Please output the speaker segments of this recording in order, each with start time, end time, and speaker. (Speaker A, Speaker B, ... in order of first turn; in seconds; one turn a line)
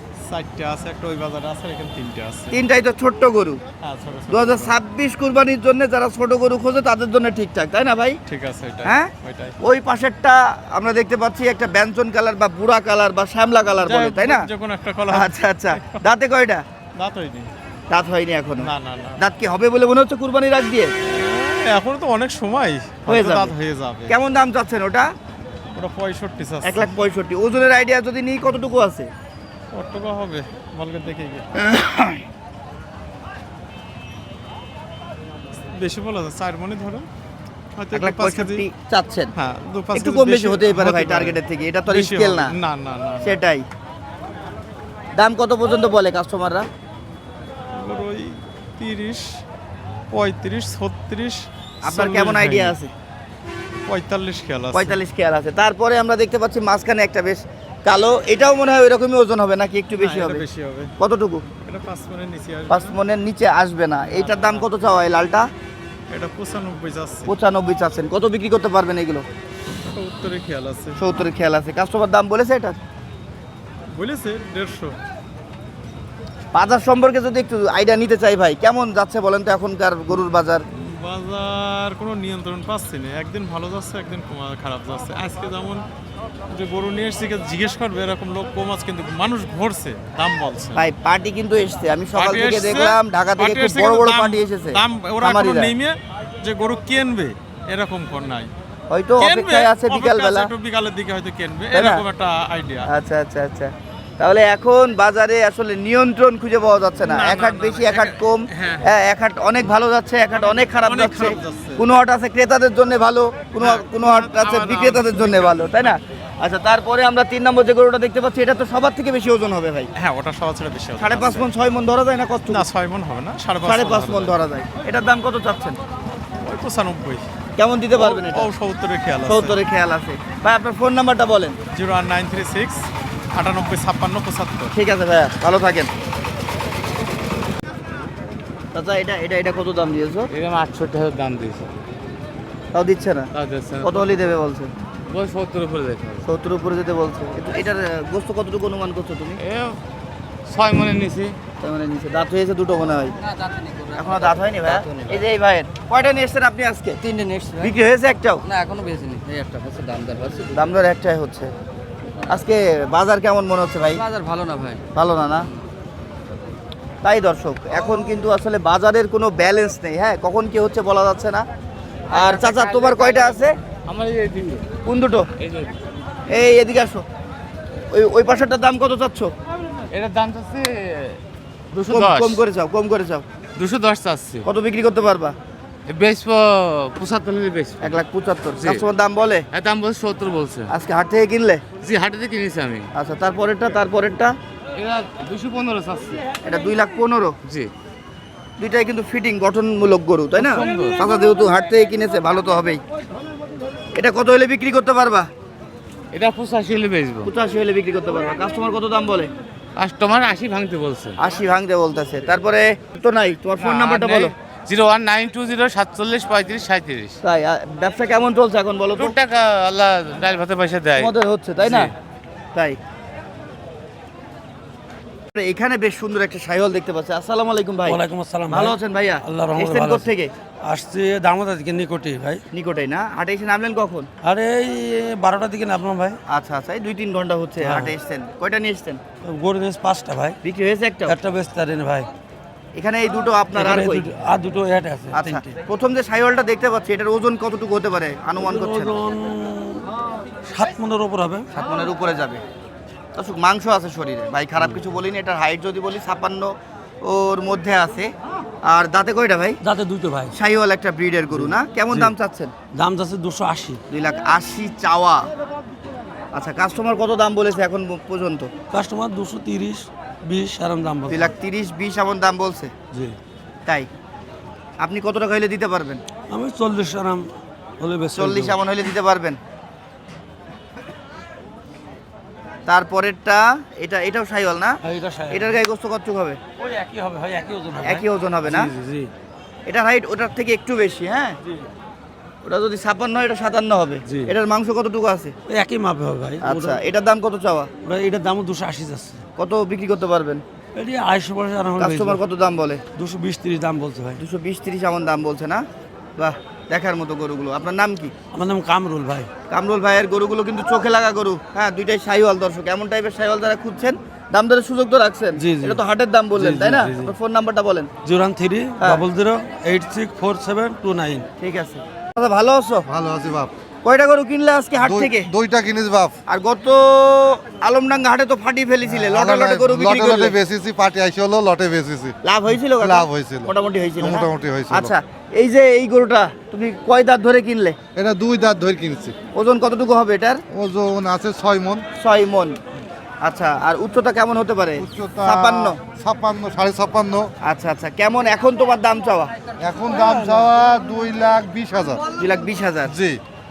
Speaker A: 0.3-2.6
Speaker B: 2.5-3.6
Speaker A: 3.8-4.8
Speaker B: 4.3-8.2
Speaker A: 8.3-9.5
Speaker B: 8.8-14.5
Speaker A: 13.8-16.0
Speaker B: 15.1-16.6
Speaker A: 16.9-17.5
Speaker B: 17.9-20.9
Speaker A: 18.6-19.2
Speaker A: 21.0-24.1
Speaker B: 23.1-23.5
Speaker B: 24.1-25.1
Speaker A: 25.7-27.0
Speaker B: 26.6-29.1
Speaker A: 29.7-31.5
Speaker B: 31.6-32.2
Speaker A: 35.8-37.1
Speaker A: 37.7-38.6
Speaker B: 37.9-39.3
Speaker A: 39.3-43.4
Speaker B: 39.9-42.5
Speaker B: 43.2-43.6
Speaker B: 45.1-46.7
Speaker A: 47.8-49.4
Speaker A: 50.1-52.8
Speaker B: 51.8-52.9
Speaker A: 53.9-55.0
Speaker B: 54.7-60.4
Speaker A: 59.9-60.9
Speaker B: 61.0-61.4
Speaker A: 61.6-63.0
Speaker B: 62.7-65.5
Speaker A: 64.1-64.7
Speaker A: 66.1-67.3
Speaker B: 67.3-69.2
Speaker A: 69.7-71.0
Speaker B: 71.0-72.8
Speaker A: 74.0-75.0
Speaker B: 76.5-80.6
Speaker A: 80.7-85.8
Speaker A: 86.5-90.9
Speaker B: 90.7-95.7
Speaker A: 92.1-98.5
Speaker B: 98.9-100.5
Speaker A: 99.2-102.9
Speaker B: 101.7-102.0
Speaker B: 102.9-119.9
Speaker A: 107.0-108.9
Speaker A: 110.3-111.8
Speaker A: 113.6-116.0
Speaker A: 120.0-121.5
Speaker B: 121.0-122.6
Speaker A: 122.5-124.4
Speaker B: 123.6-125.8
Speaker A: 126.4-127.2
Speaker B: 127.6-128.5
Speaker A: 128.0-129.6
Speaker B: 129.2-131.6
Speaker A: 131.7-134.8
Speaker B: 134.7-135.9
Speaker B: 138.7-140.3
Speaker C: 140.3-141.7
Speaker B: 142.7-143.3
Speaker C: 143.3-144.0
Speaker B: 143.8-144.7
Speaker C: 145.1-146.2
Speaker B: 146.2-149.4
Speaker C: 149.4-149.7
Speaker C: 150.5-151.3
Speaker B: 151.6-153.1
Speaker B: 153.9-157.0
Speaker D: 154.7-155.2
Speaker D: 157.0-157.8
Speaker B: 157.6-158.4
Speaker D: 158.4-160.2
Speaker B: 160.5-161.5
Speaker B: 162.3-164.0
Speaker D: 163.9-164.8
Speaker B: 164.9-165.4
Speaker B: 167.0-171.4
Speaker B: 172.1-173.6
Speaker C: 172.4-173.3
Speaker C: 173.9-174.6
Speaker B: 174.8-175.3
Speaker B: 176.3-177.0
Speaker B: 177.9-179.3
Speaker C: 179.9-180.6
Speaker C: 181.8-182.4
Speaker B: 181.8-183.2
Speaker C: 183.6-184.3
Speaker B: 184.4-185.3
Speaker C: 185.9-188.0
Speaker B: 187.8-189.4
Speaker C: 188.6-188.8
Speaker C: 189.5-190.5
Speaker B: 190.7-191.6
Speaker C: 191.8-192.8
Speaker B: 192.9-194.3
Speaker C: 194.8-196.2
Speaker B: 196.4-197.3
Speaker B: 198.6-202.8
Speaker C: 200.5-200.9
Speaker B: 203.9-205.3
Speaker C: 206.1-207.3
Speaker B: 207.2-209.3
Speaker C: 209.8-211.1
Speaker B: 211.2-214.3
Speaker C: 213.6-217.1
Speaker B: 217.2-219.1
Speaker C: 219.0-221.1
Speaker B: 220.9-221.9
Speaker C: 221.6-221.9
Speaker B: 225.3-230.3
Speaker E: 227.8-230.1
Speaker E: 230.6-232.4
Speaker B: 232.5-234.1
Speaker E: 234.2-236.2
Speaker B: 236.3-239.0
Speaker E: 237.6-237.9
Speaker E: 239.2-240.4
Speaker B: 240.4-241.2
Speaker E: 241.0-242.1
Speaker B: 242.8-244.1
Speaker E: 243.5-245.5
Speaker B: 245.1-248.9
Speaker E: 248.4-249.9
Speaker E: 250.4-251.4
Speaker B: 251.5-252.4
Speaker B: 253.2-256.5
Speaker B: 257.0-258.1
Speaker B: 258.7-259.6
Speaker E: 259.6-260.3
Speaker B: 260.3-262.5
Speaker E: 261.3-262.1
Speaker E: 262.7-263.8
Speaker B: 263.9-265.3
Speaker B: 266.3-268.5
Speaker E: 268.7-271.3
Speaker B: 271.1-272.7
Speaker B: 274.8-276.0
Speaker E: 276.3-278.6
Speaker B: 278.1-279.4
Speaker B: 282.7-284.8
Speaker E: 284.8-285.6
Speaker B: 285.3-286.4
Speaker E: 286.6-289.1
Speaker B: 287.8-288.7
Speaker B: 289.7-291.4
Speaker B: 292.4-295.3
Speaker E: 294.1-294.3
Speaker E: 295.5-296.8
Speaker B: 296.4-297.7
Speaker E: 297.8-299.2
Speaker B: 299.4-300.4
Speaker E: 300.7-302.2
Speaker B: 301.8-302.8
Speaker E: 302.9-304.2
Speaker B: 304.2-305.6
Speaker B: 306.2-308.1
Speaker E: 308.3-309.3
Speaker B: 309.5-317.9
Speaker E: 315.4-315.8
Speaker E: 316.3-317.1
Speaker E: 318.0-321.2
Speaker B: 321.4-322.8
Speaker F: 322.9-323.5
Speaker B: 323.8-325.3
Speaker F: 324.8-326.2
Speaker B: 326.3-330.4
Speaker F: 328.8-332.2
Speaker B: 332.2-337.8
Speaker F: 332.8-334.9
Speaker F: 337.9-339.1
Speaker B: 339.3-340.4
Speaker F: 340.5-341.8
Speaker B: 342.0-342.6
Speaker B: 343.2-345.8
Speaker F: 344.8-347.3
Speaker B: 347.4-349.3
Speaker F: 349.6-352.1
Speaker B: 352.2-352.9
Speaker F: 352.9-353.2